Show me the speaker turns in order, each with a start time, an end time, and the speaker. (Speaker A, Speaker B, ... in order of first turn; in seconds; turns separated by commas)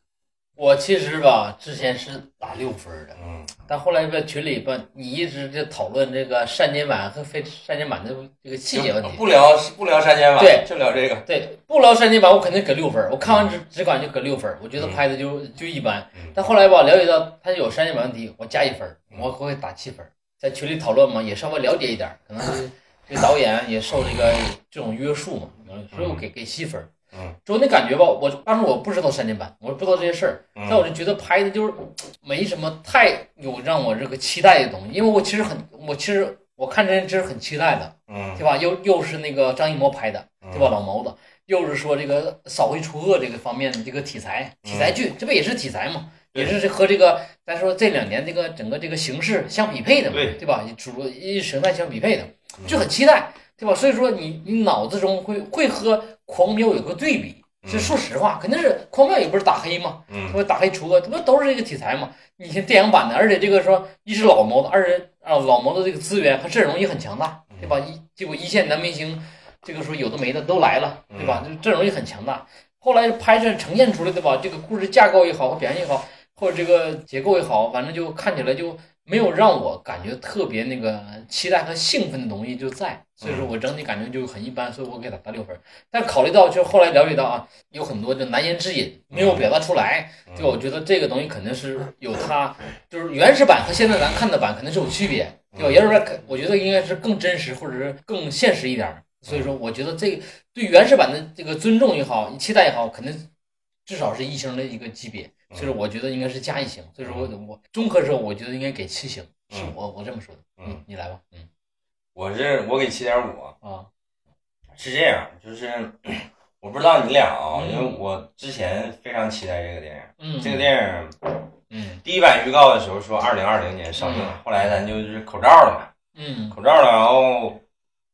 Speaker A: 0.6-9.2, Speaker B: 3.2-3.5, Speaker B: 8.7-11.3, Speaker A: 10.4-10.7, Speaker A: 11.3-26.9, Speaker B: 13.2-13.5, Speaker B: 25.9-26.2, Speaker A: 27.4-103.3, Speaker B: 30.6-30.9, Speaker B: 38.1-38.4, Speaker B: 40.4-40.7, Speaker B: 44.6-45.0, Speaker B: 50.1-50.4, Speaker B: 52.6-52.9, Speaker B: 57.6-58.0, Speaker B: 60.1-60.4, Speaker B: 67.5-67.8, Speaker B: 71.1-71.5, Speaker B: 83.2-83.5, Speaker B: 89.1-89.5, Speaker B: 90.3-90.6, Speaker B: 95.5-95.9, Speaker A: 103.9-111.5, Speaker B: 107.0-107.3, Speaker B: 112.2-113.6, Speaker A: 113.6-113.9, Speaker B: 114.8-121.5, Speaker A: 117.5-118.0, Speaker A: 120.2-120.7, Speaker A: 121.7-122.0, Speaker B: 122.0-125.9, Speaker A: 124.0-124.3, Speaker A: 126.2-126.6, Speaker B: 126.5-127.6